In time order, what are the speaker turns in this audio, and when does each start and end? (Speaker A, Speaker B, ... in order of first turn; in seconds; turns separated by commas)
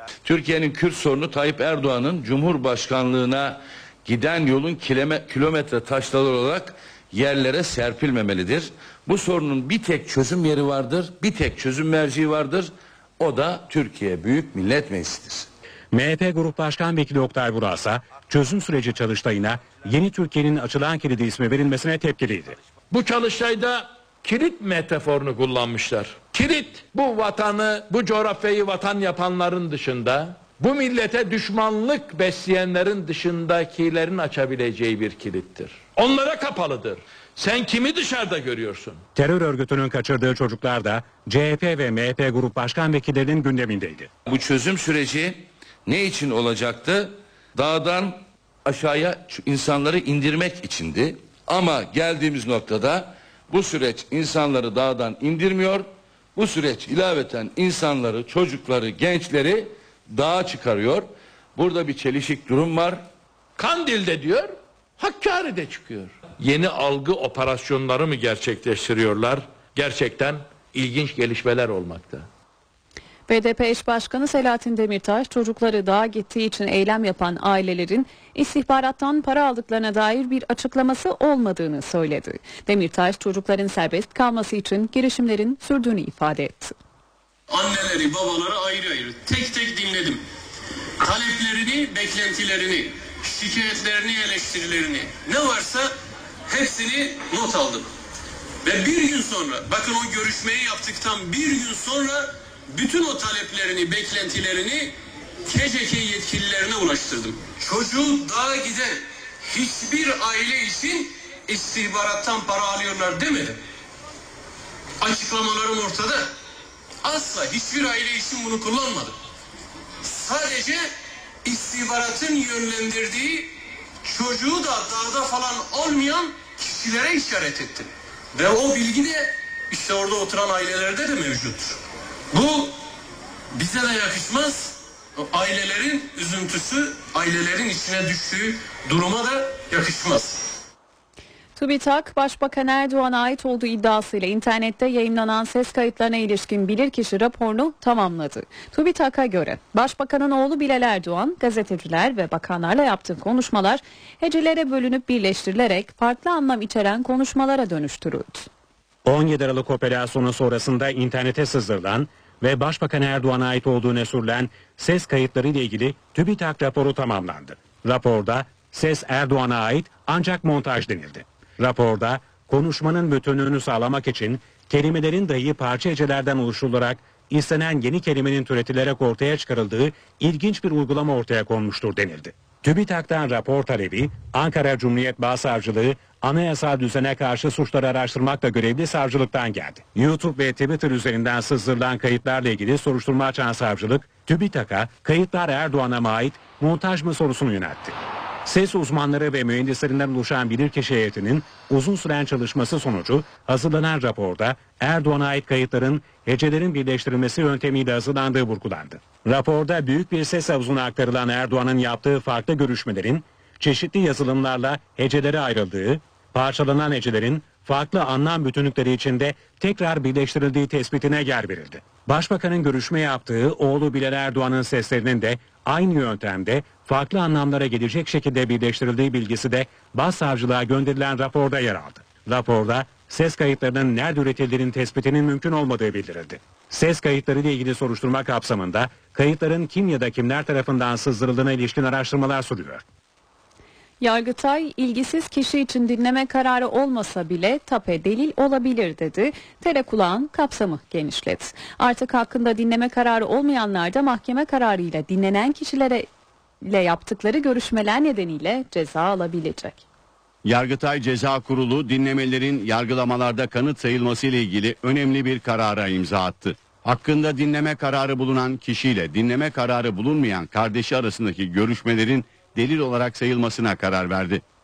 Speaker A: 0.2-15.5, Speaker B: 15.9-22.6, Speaker C: 22.9-39.0, Speaker B: 39.1-44.1, Speaker A: 44.2-63.0, Speaker C: 63.6-72.3, Speaker D: 73.3-86.7, Speaker E: 87.5-90.2, Speaker E: 91.0-95.9, Speaker E: 96.5-97.9, Speaker E: 98.6-104.9, Speaker E: 105.5-113.6, Speaker E: 115.0-116.3, Speaker E: 117.0-119.1, Speaker E: 120.0-120.9, Speaker E: 121.4-123.5, Speaker E: 124.0-131.8, Speaker E: 132.3-132.8, Speaker E: 133.5-140.4, Speaker D: 141.6-158.5, Speaker B: 159.0-242.8, Speaker D: 244.0-256.1, Speaker D: 256.6-259.8, Speaker F: 260.4-274.4